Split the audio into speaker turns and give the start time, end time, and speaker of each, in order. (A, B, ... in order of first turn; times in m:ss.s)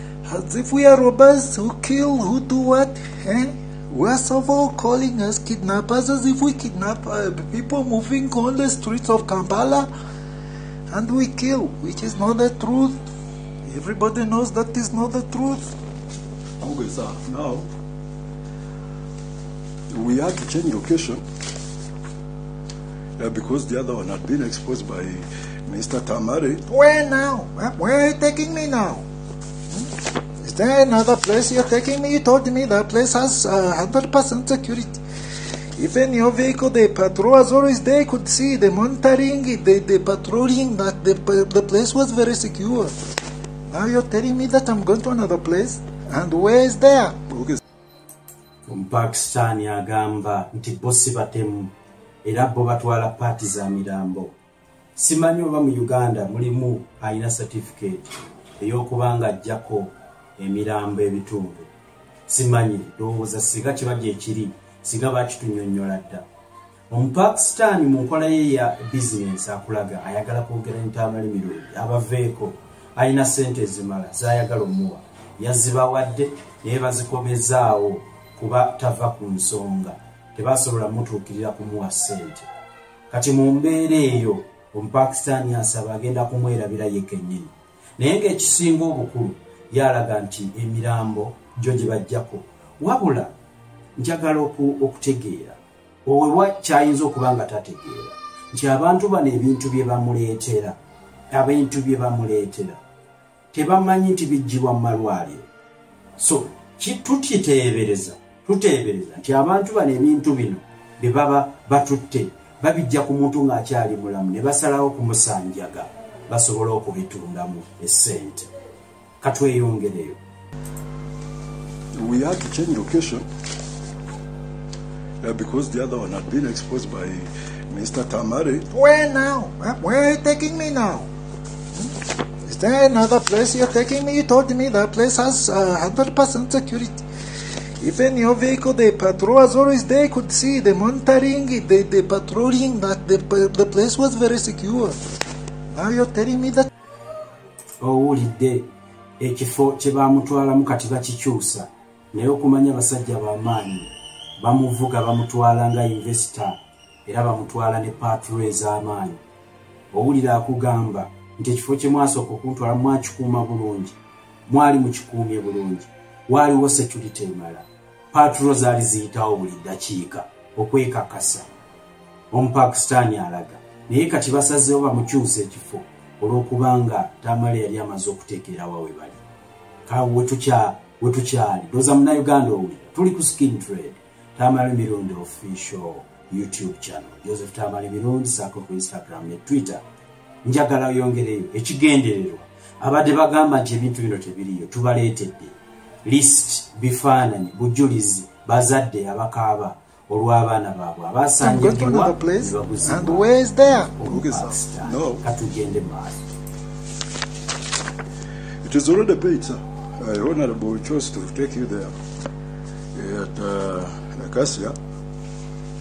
0:00.2-0:09.9 A
0:10.9-0:13.0 A
0:13.6-0:15.7 A
0:16.6-0:17.7 B
0:19.9-0:21.2 B
0:23.2-0:26.6 B
0:26.7-0:29.0 A
0:30.4-0:35.0 A
0:35.8-0:42.9 A
0:43.7-0:47.2 A
0:48.7-0:51.7 C
0:52.2-0:54.4 C
0:55.0-1:01.7 C
1:02.3-1:06.2 C
1:06.9-1:22.5 C
1:23.1-1:33.3 C
1:34.0-1:40.8 C
1:41.3-1:42.8 C
1:43.5-1:45.5 C
1:46.2-1:58.5 C
1:59.2-2:00.2 C
2:01.9-2:03.2 B
2:05.2-2:08.7 B
2:08.7-2:11.1 A
2:12.4-2:17.0 A
2:17.8-2:25.0 A
2:25.7-2:26.7 A
2:27.8-2:28.7 C
2:29.2-2:39.2 C
2:39.9-2:51.5 C
2:52.3-2:59.2 C
2:59.9-3:09.8 C
3:10.4-3:26.2 C
3:21.4-3:23.9 A
3:24.0-3:25.2 B
3:28.6-3:31.9 B
3:32.9-3:34.8 B